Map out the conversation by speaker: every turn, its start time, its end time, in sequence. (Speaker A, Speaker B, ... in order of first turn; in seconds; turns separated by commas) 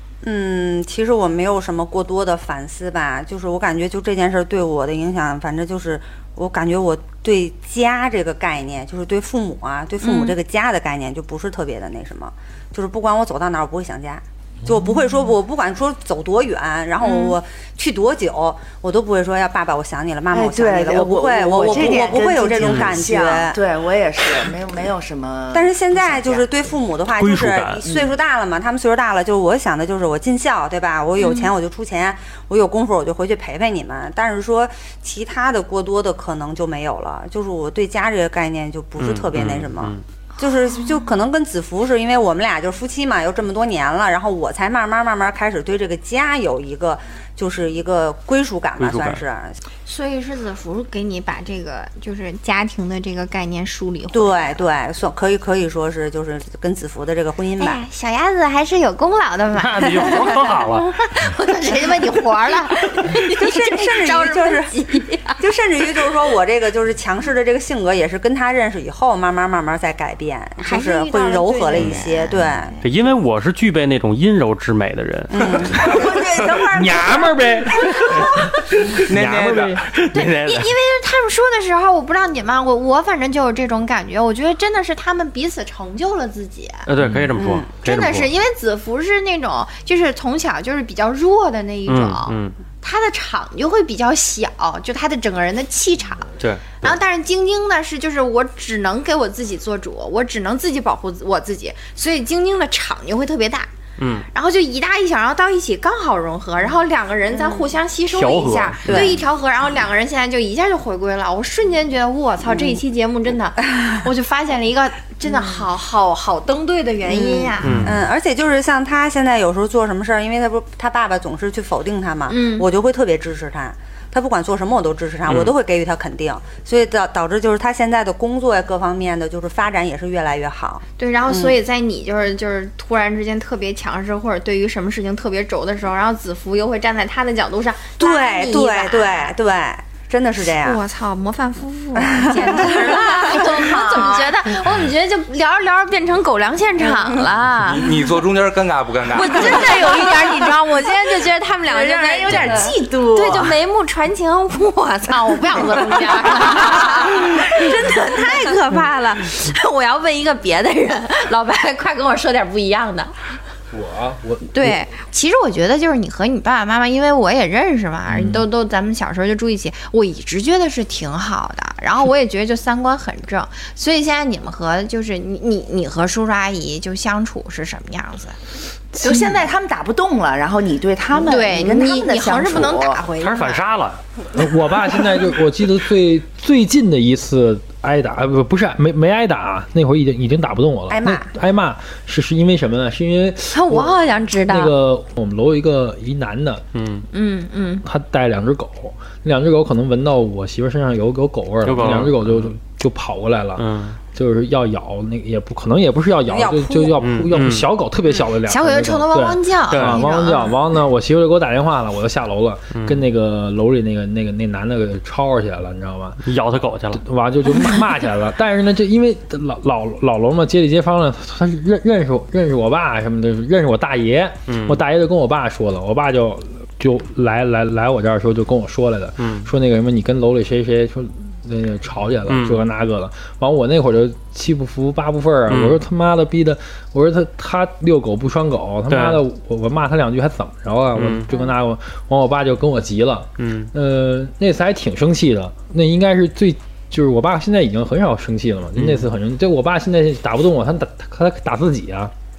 Speaker A: 0.2-23.6, Speaker B: 10.0-10.3, Speaker B: 17.0-17.3, Speaker C: 20.3-26.4, Speaker D: 22.6-23.0, Speaker A: 25.5-49.6, Speaker D: 27.1-27.8, Speaker B: 31.2-31.5, Speaker D: 39.0-40.0, Speaker D: 48.8-49.2, Speaker B: 49.9-54.6, Speaker A: 54.1-57.8, Speaker B: 57.6-65.4, Speaker D: 59.6-60.9, Speaker A: 63.4-64.8, Speaker A: 65.4-72.8, Speaker B: 70.6-72.3, Speaker D: 72.8-75.6, Speaker A: 75.3-75.8, Speaker C: 75.6-78.0, Speaker E: 76.7-79.8, Speaker F: 78.8-79.9, Speaker D: 79.9-80.7, Speaker B: 80.1-86.8, Speaker D: 86.9-88.3, Speaker A: 87.3-87.7, Speaker B: 87.8-103.7, Speaker D: 91.9-92.5, Speaker D: 96.4-97.0, Speaker D: 104.0-104.3, Speaker B: 104.3-117.9, Speaker A: 107.3-107.7, Speaker D: 108.1-109.1, Speaker A: 108.8-109.1, Speaker A: 112.5-112.8, Speaker A: 117.0-131.5, Speaker D: 117.6-118.0, Speaker B: 122.3-122.7, Speaker B: 131.0-139.3, Speaker A: 138.0-140.8, Speaker B: 140.6-147.9, Speaker A: 142.0-143.6, Speaker C: 143.6-144.2, Speaker F: 147.6-149.9, Speaker B: 149.1-163.1, Speaker C: 151.7-153.5, Speaker E: 163.7-164.8, Speaker B: 164.5-178.3, Speaker E: 168.1-168.4, Speaker C: 179.0-183.1, Speaker B: 181.2-183.6, Speaker D: 183.2-184.0, Speaker E: 184.3-194.0, Speaker A: 190.9-191.3, Speaker B: 193.5-194.7, Speaker E: 194.5-196.6, Speaker D: 196.7-197.1, Speaker B: 197.1-197.8, Speaker E: 197.8-216.2, Speaker D: 201.6-202.5, Speaker D: 203.6-204.0, Speaker A: 206.3-206.9, Speaker D: 207.0-207.7, Speaker B: 208.4-210.6, Speaker D: 209.7-210.0, Speaker D: 212.7-213.0, Speaker D: 216.2-217.0, Speaker E: 216.9-252.1, Speaker D: 224.5-224.8, Speaker D: 229.2-229.5, Speaker D: 232.3-232.6, Speaker D: 235.5-235.8, Speaker D: 238.9-239.2, Speaker D: 240.9-241.3, Speaker D: 243.4-243.7, Speaker D: 248.8-249.1